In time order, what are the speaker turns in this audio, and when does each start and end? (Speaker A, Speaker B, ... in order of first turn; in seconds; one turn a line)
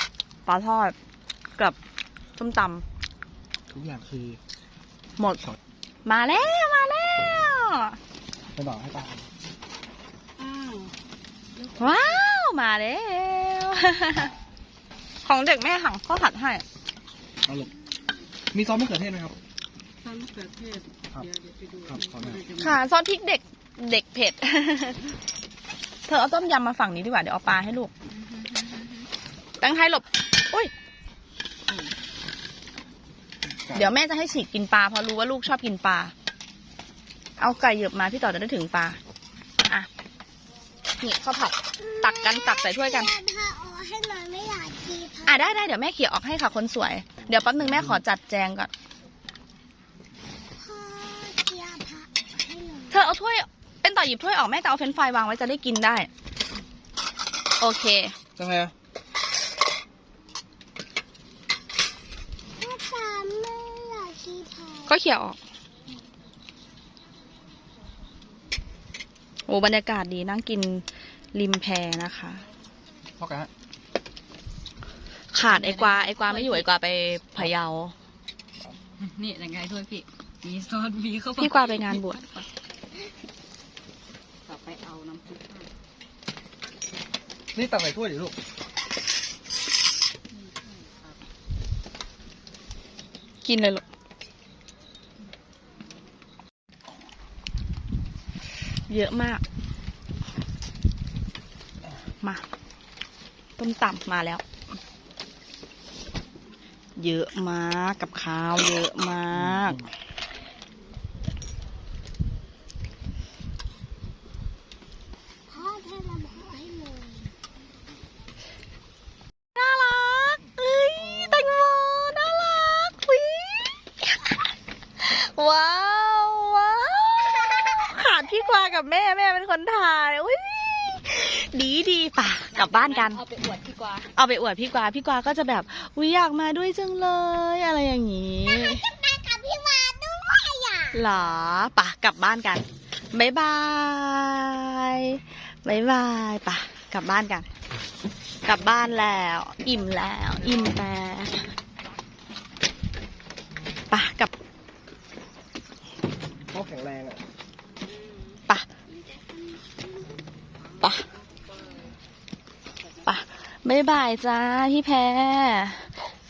Speaker A: 0.5-0.9
Speaker A: 2.4-2.8
Speaker B: 3.7-4.4
Speaker A: 5.2-5.4
Speaker A: 6.0-8.0
Speaker B: 8.5-9.2
Speaker C: 10.4-10.9
Speaker C: 11.5-12.2
Speaker A: 11.8-14.3
Speaker A: 15.2-16.6
Speaker B: 17.4-17.7
Speaker B: 18.5-19.3
Speaker C: 20.0-22.8
Speaker B: 21.9-22.4
Speaker A: 22.6-25.0
Speaker A: 26.1-27.9
Speaker C: 28.1-29.1
Speaker A: 29.6-30.7
Speaker B: 33.5-33.9
Speaker A: 33.7-36.1
Speaker A: 37.4-39.0
Speaker A: 41.0-43.1
Speaker D: 41.8-45.7
Speaker A: 45.2-48.7
Speaker B: 47.4-48.0
Speaker D: 50.5-53.1
Speaker A: 52.9-56.1
Speaker A: 57.6-58.1
Speaker B: 58.4-58.7
Speaker D: 62.6-65.0
Speaker A: 64.9-65.4
Speaker A: 69.5-72.4
Speaker B: 73.2-73.5
Speaker A: 75.3-77.9
Speaker C: 75.4-76.7
Speaker C: 79.0-82.5
Speaker A: 81.4-82.2
Speaker C: 84.4-85.7
Speaker B: 87.5-88.3
Speaker C: 90.3-91.2
Speaker A: 93.4-93.8
Speaker A: 98.9-99.4
Speaker A: 103.6-104.4
Speaker A: 107.0-109.9
Speaker D: 115.5-117.3
Speaker A: 119.5-124.4
Speaker A: 125.0-133.2
Speaker C: 132.5-134.1
Speaker A: 134.1-138.8
Speaker D: 138.4-141.1
Speaker A: 140.9-147.5
Speaker A: 148.4-151.5
Speaker A: 153.9-154.3
Speaker B: 156.5-157.2
Speaker C: 157.8-161.9
Speaker A: 160.8-161.1
Speaker A: 163.0-165.9